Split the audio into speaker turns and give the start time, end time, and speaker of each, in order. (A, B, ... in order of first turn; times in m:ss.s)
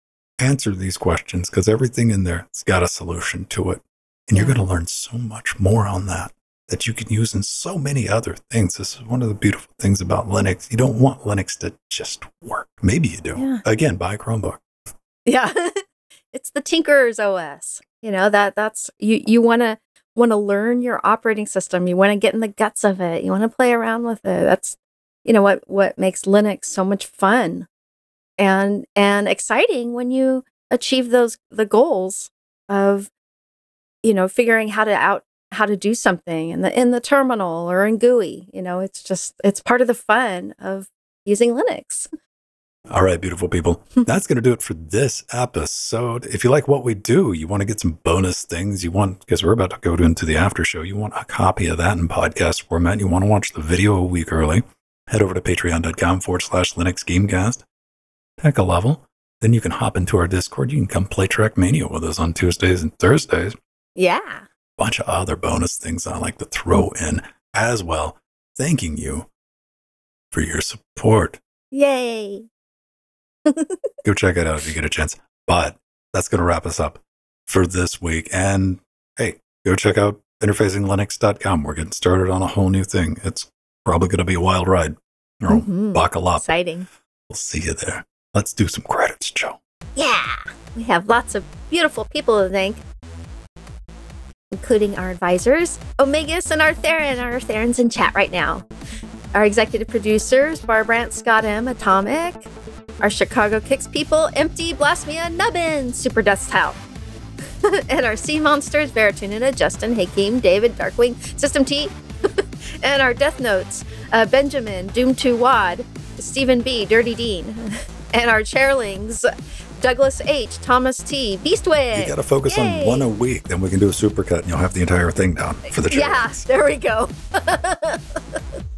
0:00.4-0:14.6 A
0:04.3-0:04.6 B
0:15.3-0:27.7 B
0:28.4-0:33.1 B
0:34.0-0:42.1 B
0:42.9-0:57.6 A
0:58.4-1:03.6 A
1:04.0-1:04.4 B
1:04.8-1:09.3 A
1:10.3-1:11.4 A
1:11.7-1:12.5 B
1:13.4-1:13.8 B
1:14.0-1:26.5 A
1:25.5-1:26.9 B
1:27.3-1:29.6 A
1:30.0-1:32.8 B
1:34.5-1:38.7 B
1:39.3-1:42.5 B
1:43.0-1:46.8 B
1:47.6-2:03.1 B
2:01.9-2:06.4 A
2:05.8-2:08.4 B